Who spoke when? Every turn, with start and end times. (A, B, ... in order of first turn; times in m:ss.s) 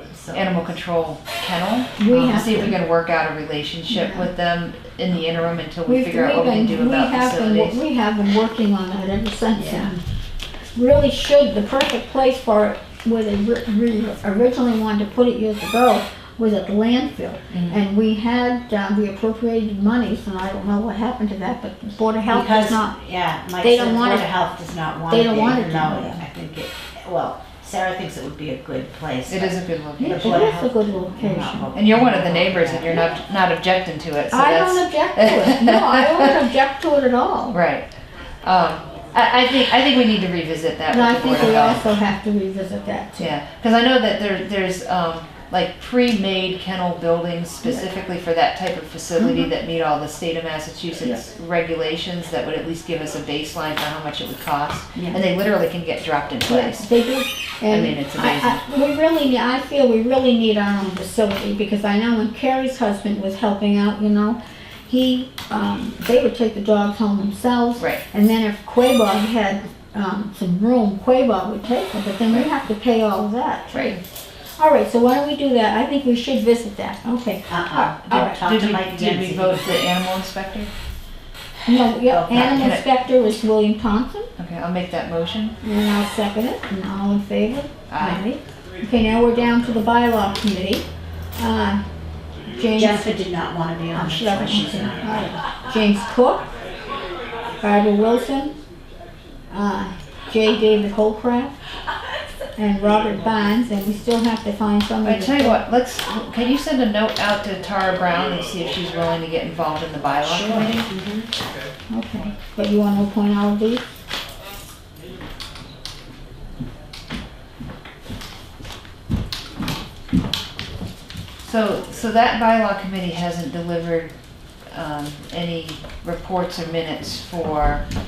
0:00.1-0:00.6 A
0:00.3-0:07.8 B
0:02.0-0:02.8 C
0:03.9-0:04.3 C
0:05.8-0:10.0 C
0:09.6-0:10.0 A
0:10.7-0:23.0 C
0:17.5-0:17.8 B
0:22.3-0:33.1 A
0:23.6-0:24.3 C
0:25.1-0:26.2 C
0:29.3-0:30.5 B
0:30.0-0:31.8 C
0:31.7-0:36.3 B
0:34.3-0:37.6 C
0:37.5-0:37.9 B
0:38.4-0:42.0 B
0:40.9-0:43.3 C
0:43.2-0:56.9 B
0:49.2-0:49.5 C
0:54.9-0:55.2 C
0:56.4-1:14.0 C
0:57.7-0:58.6 B
1:07.8-1:08.0 B
1:13.7-1:14.0 B
1:14.6-1:18.4 C
1:17.5-1:19.9 A
1:17.8-1:20.7 B
1:21.7-1:22.8 A
1:21.7-1:24.3 C
1:22.3-1:22.8 B
1:24.4-1:25.6 B
1:25.6-1:30.8 C
1:27.9-1:28.2 B
1:31.4-1:31.8 C
1:32.5-1:33.1 C
1:32.7-1:35.4 A
1:33.9-1:36.5 C
1:37.6-1:38.5 C
1:39.5-1:41.5 C
1:42.6-1:45.6 C
1:45.0-1:50.9 B
1:50.2-1:51.3 A
1:51.9-1:53.9 C
2:01.4-2:04.1 B
2:04.7-2:07.8 B